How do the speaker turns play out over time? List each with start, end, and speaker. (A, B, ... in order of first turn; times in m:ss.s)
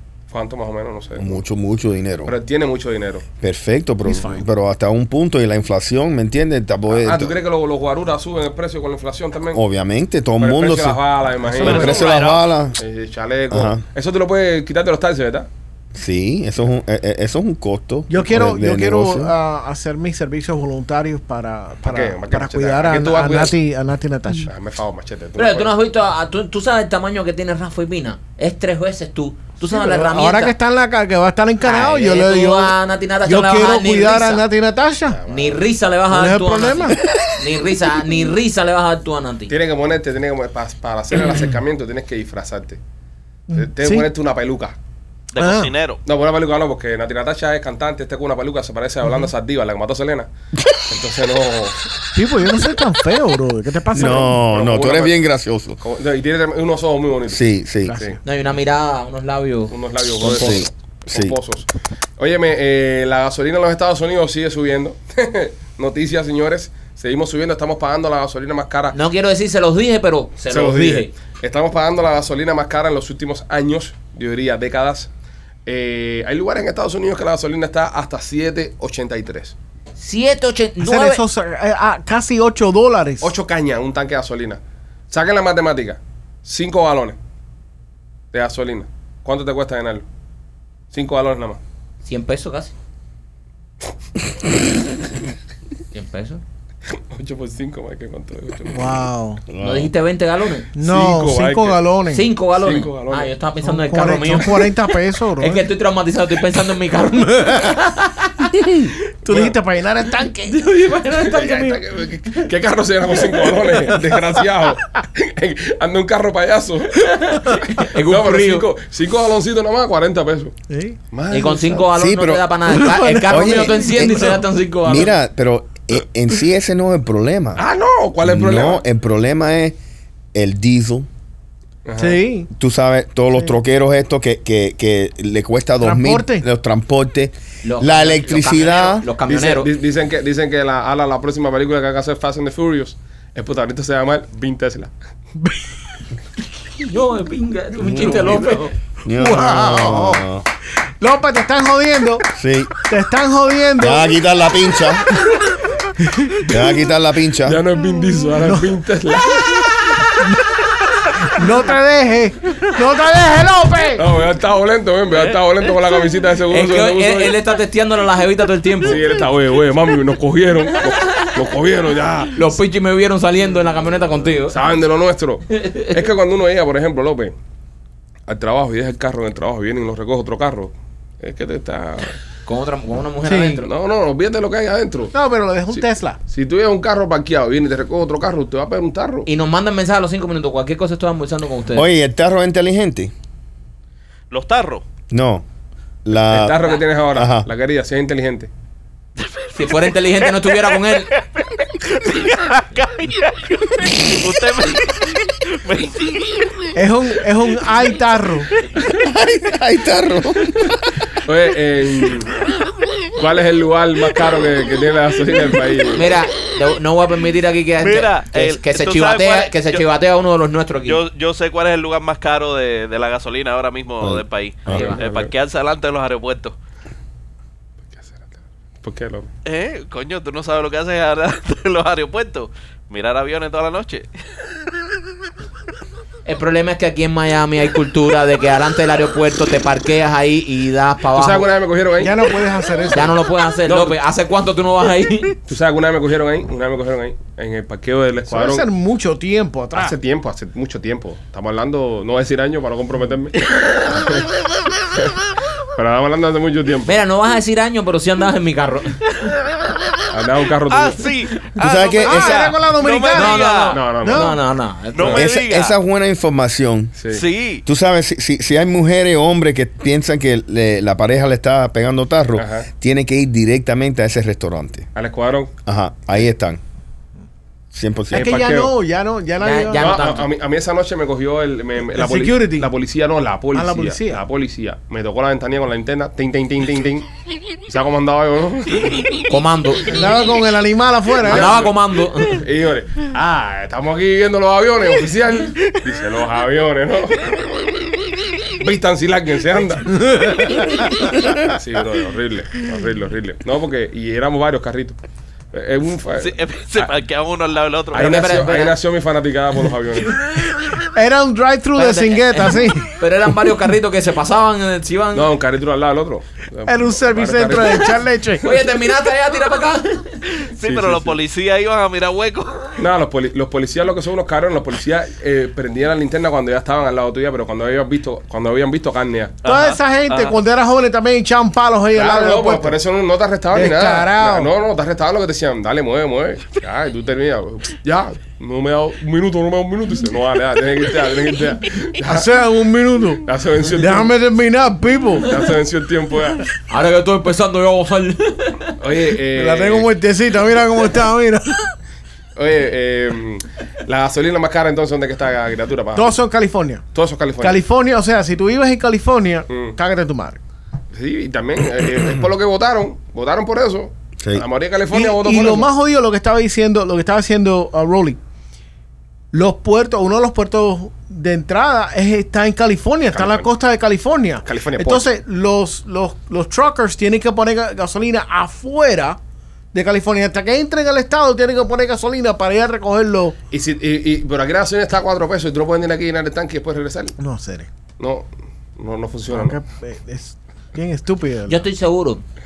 0:00.3-0:01.4 A
0:01.2-0:02.3 B
0:02.3-0:03.3 A
0:03.4-0:07.3 B
0:04.0-0:04.4 C
0:06.9-0:09.6 A
0:09.5-0:11.0 B
0:10.4-0:12.2 A
0:11.5-0:12.2 C
0:11.6-0:12.8 B
0:11.8-0:12.4 D
0:12.8-0:15.5 A
0:13.5-0:13.8 B
0:16.0-0:19.3 B
0:18.1-0:24.5 C
0:21.8-0:23.6 A
0:24.5-0:25.7 A
0:25.4-0:30.6 E
0:29.7-0:35.2 C
0:31.6-0:34.4 E
0:35.1-0:35.6 A
0:35.3-0:39.6 E
0:36.1-0:37.0 C
0:39.5-0:42.8 A
0:43.5-0:44.1 C
0:43.5-0:44.8 A
0:45.3-0:46.0 D
0:45.4-0:45.7 C
0:46.0-0:50.3 A
0:50.9-0:51.8 A
0:52.2-0:54.4 C
0:53.9-0:55.8 B
0:54.4-0:55.2 A
0:55.8-0:58.2 A
0:57.3-0:58.0 B
0:57.9-0:58.2 C
0:58.2-1:00.6 E
0:59.7-1:09.0 A
1:00.2-1:01.4 B
1:08.9-1:11.1 E
1:10.5-1:15.1 A
1:15.7-1:19.6 A
1:20.0-1:21.2 E
1:20.8-1:23.3 C
1:23.2-1:27.2 A
1:28.3-1:30.0 A
1:30.9-1:31.6 A
1:32.0-1:32.7 E
1:35.9-1:36.4 E
1:37.1-1:39.1 A
1:38.7-1:39.4 C
1:39.5-1:39.9 B
1:39.6-1:40.7 E
1:40.8-1:42.3 C
1:40.8-1:41.8 A
1:42.1-1:44.8 E
1:42.5-1:43.3 A
1:43.6-1:45.6 C
1:45.4-1:48.5 E
1:49.2-1:50.7 C
1:49.3-1:49.6 A
1:50.5-1:51.7 E
1:51.2-1:57.2 A
1:51.4-1:51.8 C
1:57.0-1:58.7 E
1:57.7-2:00.5 A
2:00.7-2:01.0 C
2:01.1-2:01.8 A
2:01.3-2:05.1 E
2:01.9-2:02.5 B
2:02.7-2:04.4 C
2:03.3-2:04.3 B
2:04.8-2:07.6 B
2:07.6-2:08.8 A
2:08.2-2:09.8 B
2:10.3-2:11.1 B
2:11.8-2:12.2 A
2:12.0-2:12.5 C
2:12.6-2:19.1 B
2:15.8-2:16.5 C
2:17.6-2:19.7 E
2:19.3-2:24.9 A
2:26.8-2:28.8 E
2:27.8-2:28.4 B
2:28.0-2:28.5 C
2:29.0-2:30.4 B
2:29.1-2:30.3 C
2:31.0-2:32.3 C
2:32.4-2:32.7 B
2:32.9-2:34.1 C
2:33.8-2:35.1 B
2:36.0-2:36.5 C
2:36.5-2:37.6 B
2:37.4-2:40.0 A
2:38.4-2:38.7 C
2:41.2-2:44.1 C
2:44.0-2:47.4 A
2:46.5-2:49.1 E
2:48.8-2:52.4 A
2:51.0-2:51.3 E
2:52.4-2:54.6 E
2:54.5-2:57.4 A
2:55.5-2:56.0 E
2:58.3-3:02.2 A
3:02.5-3:03.7 E
3:03.2-3:03.6 C
3:03.6-3:05.1 A
3:05.1-3:06.2 C
3:05.7-3:09.3 A
3:09.3-3:11.9 E
3:11.7-3:13.1 B
3:14.3-3:14.8 D
3:15.1-3:15.4 B
3:16.0-3:16.6 B
3:16.3-3:18.5 A
3:17.1-3:17.5 B
3:19.2-3:26.7 D
3:19.5-3:21.1 E
3:26.8-3:28.5 C
3:28.9-3:30.8 B
3:31.2-3:32.3 A
3:33.2-3:36.2 A
3:35.9-3:41.0 E
3:37.8-3:39.8 D
3:40.9-3:46.6 D
3:44.0-3:44.9 B
3:44.7-3:45.0 E
3:44.9-3:45.3 A
3:47.9-3:48.3 A
3:48.8-3:49.3 A
3:49.4-3:54.1 D
3:56.3-4:01.5 E
4:01.1-4:02.2 A
4:02.0-4:03.2 C
4:02.9-4:05.4 E
4:03.7-4:04.0 A
4:05.5-4:08.7 A
4:08.3-4:10.0 C
4:09.7-4:14.3 A
4:15.8-4:16.9 A
4:16.9-4:19.0 E
4:20.1-4:21.1 A
4:20.7-4:23.8 D
4:21.6-4:22.5 B
4:22.0-4:24.4 C
4:23.1-4:25.2 E
4:23.7-4:24.4 A
4:25.0-4:25.8 D
4:25.1-4:26.9 B
4:27.0-4:27.2 A
4:27.1-4:27.6 D
4:27.6-4:34.9 B
4:32.4-4:32.7 A
4:34.9-4:35.5 A
4:35.7-4:36.6 B
4:37.7-4:38.4 B
4:38.1-4:38.7 A
4:38.1-4:40.0 C
4:39.4-4:40.3 E
4:39.8-4:47.1 A
4:41.9-4:42.7 C
4:43.5-4:44.2 C
4:47.7-4:49.1 A
4:49.3-4:50.1 E
4:49.9-4:51.6 C
4:51.2-4:57.5 A
4:51.2-4:52.4 E
4:58.5-5:00.0 A
5:00.1-5:00.8 C
5:01.4-5:05.0 A
5:05.5-5:06.9 A
5:06.2-5:08.3 D
5:07.9-5:10.3 A
5:07.9-5:08.8 E
5:10.9-5:12.9 C
5:11.8-5:15.3 E
5:15.1-5:18.0 A
5:16.7-5:18.6 C
5:18.4-5:20.4 E
5:20.4-5:22.8 D
5:20.6-5:21.2 A
5:22.8-5:29.4 A
5:29.4-5:30.4 D
5:29.4-5:32.8 C
5:31.9-5:42.3 A
5:33.5-5:34.5 C
5:42.0-5:45.4 C
5:43.2-5:44.1 A
5:45.2-5:46.4 A
5:46.7-5:48.8 E
5:48.8-5:49.9 A
5:49.3-5:51.7 C
5:52.4-5:56.2 A
5:56.0-5:56.9 C
5:56.9-5:57.6 A
5:57.4-6:00.4 C
5:59.5-5:59.8 A
6:00.9-6:05.7 A
6:04.9-6:08.2 C
6:09.3-6:19.2 C
6:13.1-6:13.5 A
6:14.4-6:15.1 A
6:19.7-6:23.4 C
6:23.5-6:27.2 A
6:27.2-6:27.7 C
6:28.0-6:29.6 A
6:29.3-6:31.6 C
6:31.5-6:32.2 E